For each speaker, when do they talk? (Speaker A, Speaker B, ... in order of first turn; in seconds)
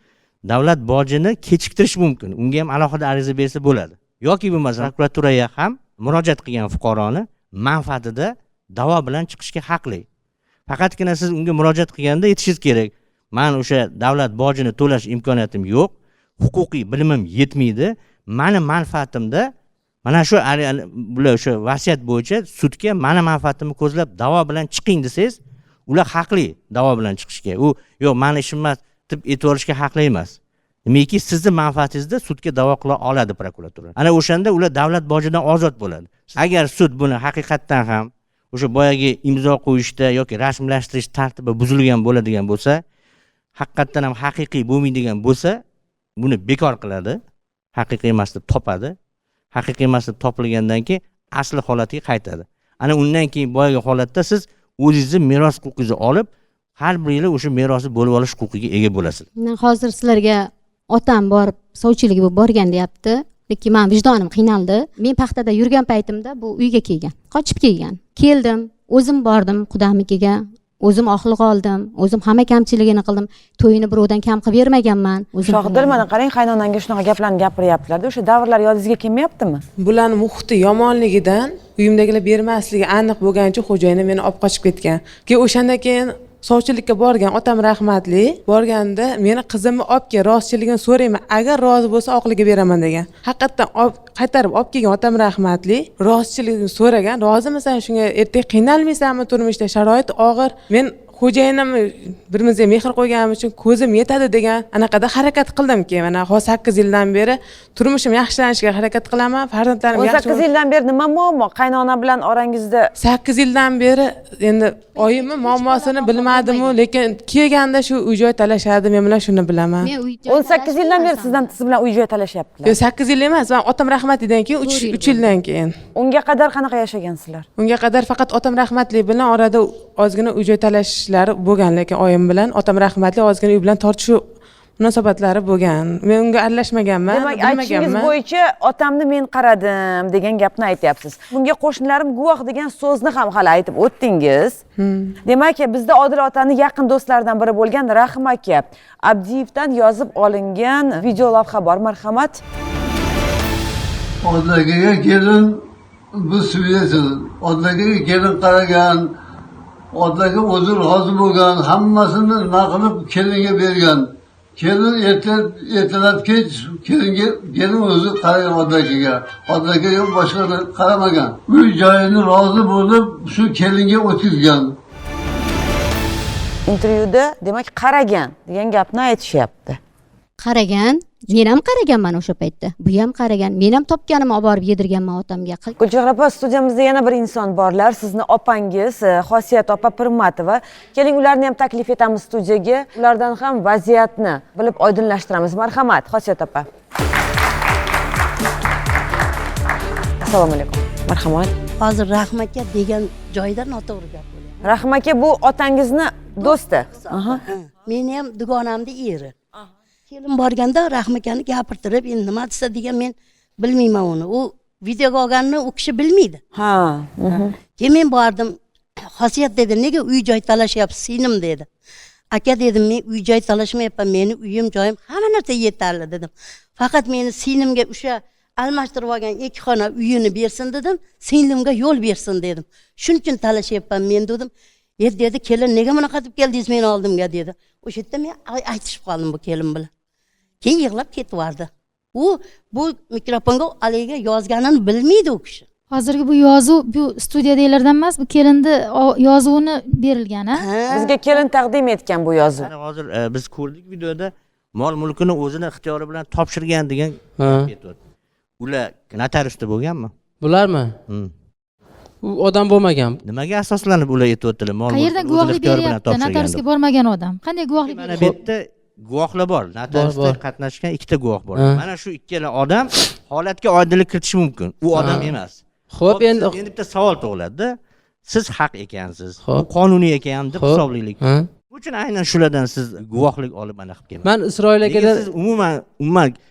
Speaker A: 0.5-10.0, 10.7-19.4, 20.0-25.4, 25.9-30.4, 30.9-42.8, 43.6-45.5, 46.2-47.2, 47.7-48.9, 49.5-56.3, 56.8-59.2, 252.6-257.9, 258.6-260.1, 263.2-266.6, 267.9-275.6, 276.1-277.7, 278.2-281.2, 281.7-284.2, 284.8-286.3
Speaker B: 59.4-76.0, 115.0-116.8, 119.8-121.5, 124.6-125.2, 180.4-185.8
Speaker C: 75.4-79.6, 109.9-112.9, 120.3-122.8, 126.0-127.5, 137.1-144.6, 145.2-152.4, 176.7-179.8, 185.8-196.7, 200.2-201.5, 204.6-207.4, 216.5-217.5, 250.9-252.7
Speaker D: 79.8-110.5, 113.0-119.9, 122.7-125.7, 127.6-134.2, 134.8-138.1, 144.8-145.2
Speaker E: 154.2-155.6, 156.1-159.1, 159.9-164.1, 164.6-174.7
Speaker F: 201.8-204.5, 206.4-209.3, 210.1-216.4, 217.8-218.6, 219.2-221.7, 222.3-239.9, 240.6-245.7, 250.6-251.2
Speaker G: 245.9-250.7, 264.9-268.3
Speaker H: 257.4-257.7, 260.4-260.9, 262.2-263.2, 269.9-270.4, 271.6-271.8, 274.9-275.4, 275.9-276.6, 280.6-281.5, 284.2-285.2